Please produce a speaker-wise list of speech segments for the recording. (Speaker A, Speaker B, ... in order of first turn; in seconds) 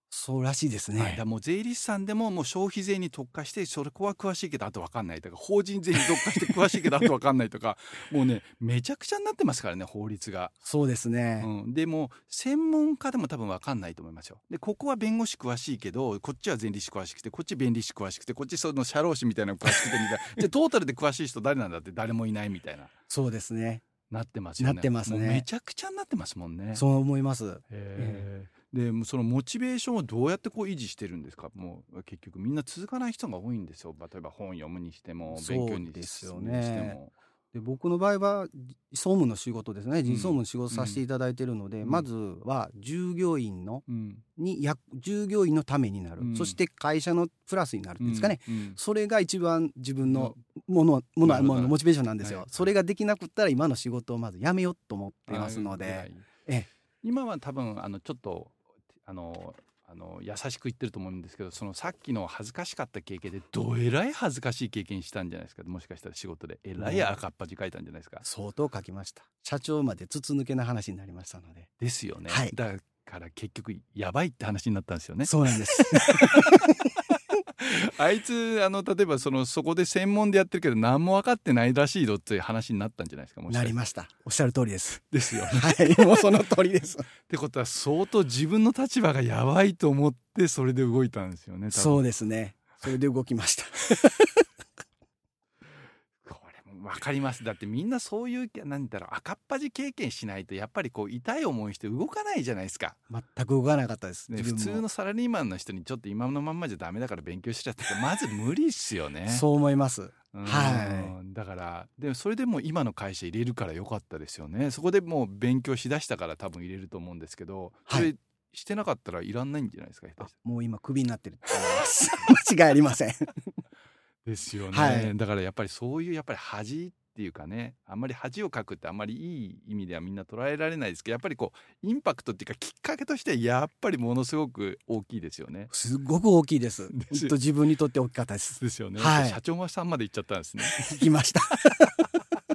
Speaker A: 0.1-1.2, 10.6-11.5, 23.1-23.8, 24.6-25.5, 26.7-28.3, 35.3-37.0, 37.5-43.8, 44.4-56.7, 66.8-67.1, 68.2-71.7, 72.3-72.5, 75.2-76.8, 83.5-87.1, 91.7-94.4, 103.1-104.8, 109.3-111.1, 120.2-123.3, 124.7-125.1, 135.7-139.4, 140.8-142.1
Speaker B: 1.0-10.6, 11.4-22.9, 24.1-26.8, 27.7-37.1, 40.0-41.0, 43.9-44.2, 46.2-46.6, 48.0-48.8, 50.0-50.4, 51.2-52.7, 55.3-56.3, 57.0-68.2, 71.8-83.8, 85.1-86.3, 87.2-92.1, 96.2-103.0, 104.3-109.5, 110.3-120.3, 124.2-135.7, 136.9-137.3, 138.6-141.0